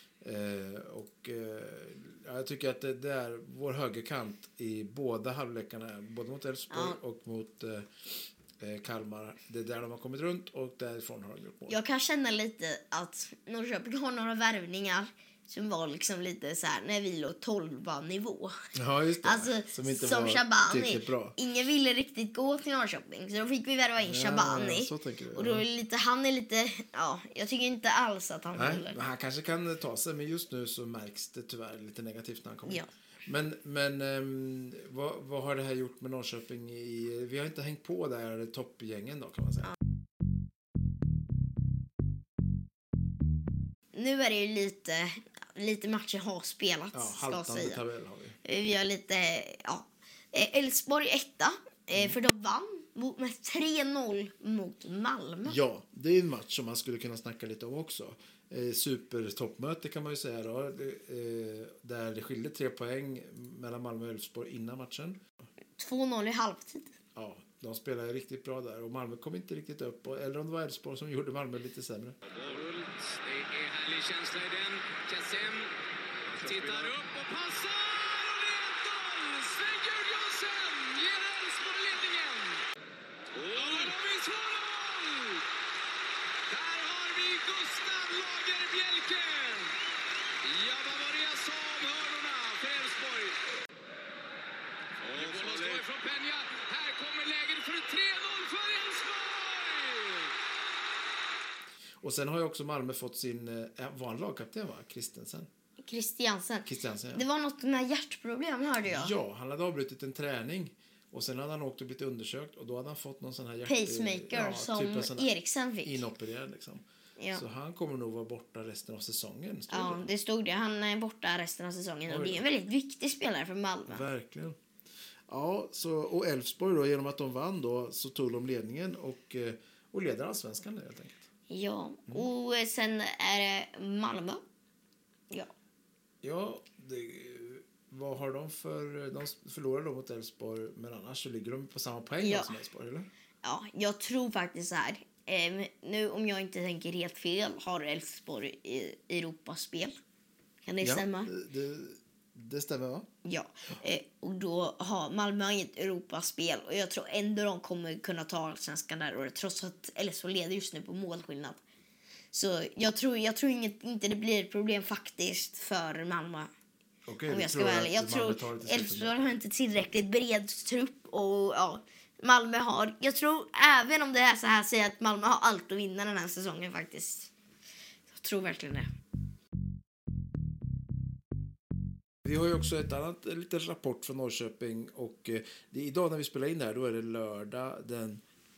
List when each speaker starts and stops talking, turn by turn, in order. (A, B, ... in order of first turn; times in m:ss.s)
0:00.2-0:07.9 A
0:06.7-0:07.0 B
0:08.6-0:11.8 A
0:11.7-0:18.6 B
0:18.7-0:21.4 A
0:19.2-0:29.0 B
0:24.0-0:25.6 A
0:28.5-0:39.7 A
0:43.9-0:47.8 B
0:46.9-0:48.4 A
0:48.4-0:55.6 B
0:55.4-1:05.2 A
1:05.8-1:06.9 B
1:07.1-1:12.2 A
1:12.3-1:15.7 C
1:16.3-1:22.6 C
1:23.4-1:25.4 C
1:26.5-1:29.8 C
1:30.4-1:33.4 C
1:35.0-1:40.3 C
1:42.0-1:45.5 A
1:45.8-1:49.1 B
1:46.6-1:47.2 A
1:48.8-1:55.3 A
1:53.6-1:56.0 B
1:55.8-2:00.1 A
1:57.2-1:57.4 B
1:59.7-2:04.0 B
2:02.1-2:02.4 A
2:03.9-2:04.6 A
2:05.3-2:11.3 A
2:11.5-2:14.4 B
2:16.2-2:23.1 A
2:22.2-2:22.5 B
2:23.4-2:30.0 B
2:30.6-2:31.3 B
2:30.8-2:33.1 A
2:33.2-2:41.6 B
2:42.3-2:46.5 B
2:47.1-2:49.1 A
2:47.3-2:57.3 B
2:58.1-2:58.9 B
3:02.2-3:08.2 A